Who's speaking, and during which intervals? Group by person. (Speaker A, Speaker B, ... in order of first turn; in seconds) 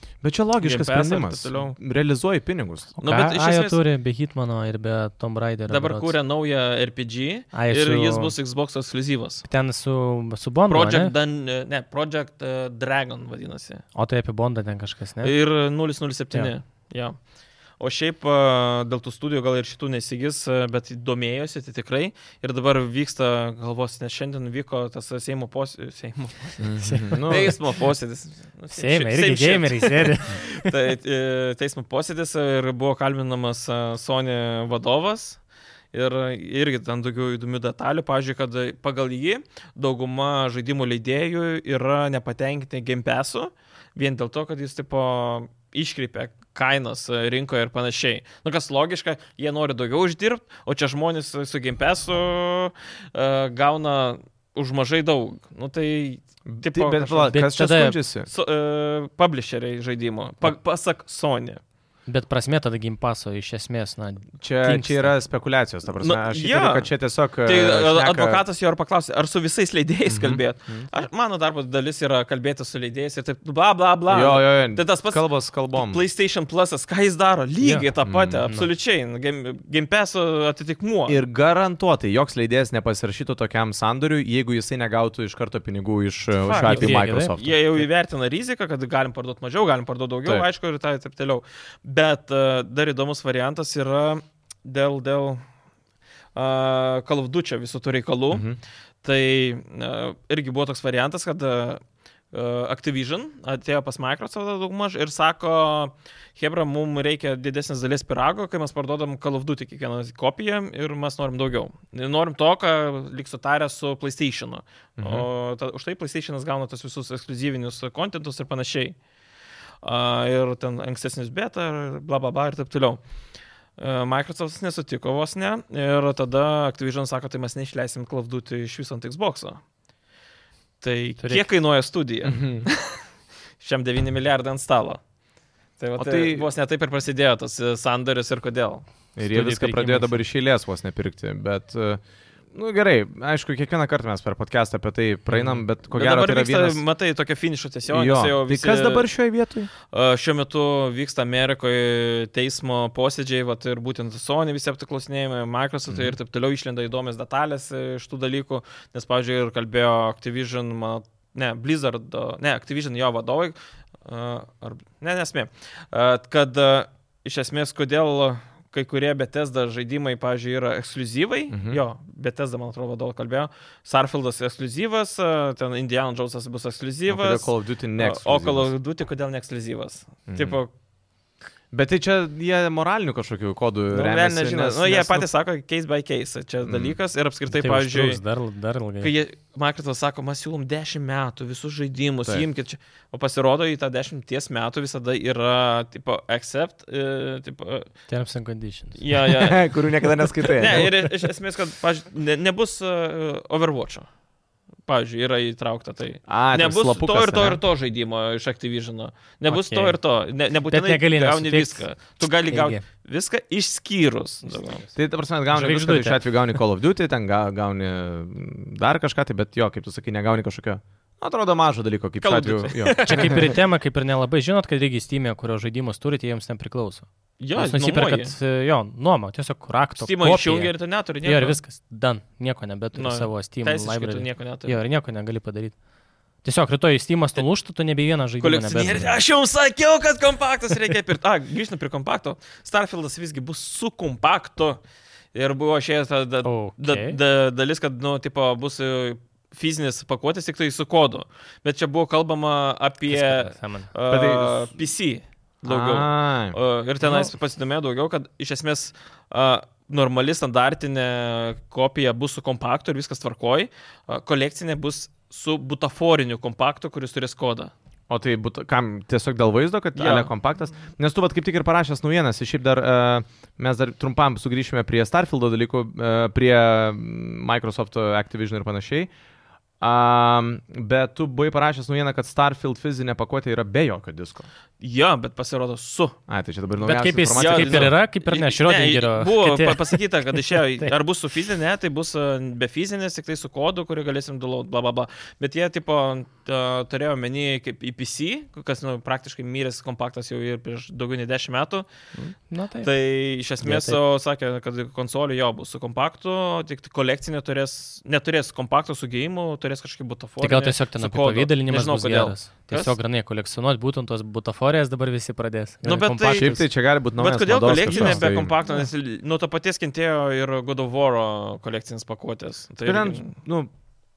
Speaker A: 0.2-2.9, 26.6-27.6, 56.5-58.3, 64.4-68.4, 70.1-70.4, 74.1-76.0, 78.0-78.5, 81.1-87.6, 98.3-98.6, 115.0-115.3, 132.2-132.7, 136.0-136.5, 139.2-142.0, 142.5-146.8, 147.9-149.7, 155.9-156.2, 171.5-171.8, 177.1-178.7, 180.3-180.6, 181.7-185.3, 186.6-187.0, 199.2-201.1, 206.3-207.6, 214.9-223.5, 254.1-254.7, 255.7-256.6, 268.1-279.1, 279.8-284.5, 286.3-287.9, 316.3-318.6, 322.8-323.7
Speaker B: 0.6-1.8, 3.0-3.8, 5.7-9.5, 10.7-13.8, 15.2-17.1, 17.8-35.4, 35.9-57.3, 58.3-61.6, 66.0-66.9, 67.4-81.2, 86.4-95.4, 96.3-98.5, 99.0-101.8, 102.3-119.0, 119.8-123.0, 123.8-129.6, 130.8-133.0, 133.6-135.0, 135.8-138.8, 145.9-149.1, 149.9-180.7, 183.9-188.2, 189.0-197.9, 198.9-199.8, 200.4-204.1, 204.8-214.8, 222.2-223.5, 227.4-228.3, 230.0-231.6, 232.9-234.8, 238.4-244.8, 245.3-267.7, 269.9-270.3, 284.8-286.2, 287.3-301.9, 302.8-312.9, 315.8-316.5, 317.2-323.3
Speaker C: 3.0-6.1, 7.5-8.3, 9.4-11.1, 13.9-15.3, 26.8-27.3, 28.7-30.7, 57.2-58.0, 62.1-65.1, 77.6-77.9, 86.6-87.3, 131.2-131.4, 139.2-140.2, 145.3-145.6, 187.5-189.1, 198.1-199.0, 209.5-210.0, 210.7-211.8, 212.5-212.8, 215.5-216.2, 223.0-235.7, 236.4-239.1, 246.4-247.2, 253.1-253.9, 257.0-257.3, 286.8-290.9, 302.2-302.9, 303.6-304.0, 310.4-316.6, 317.7-318.9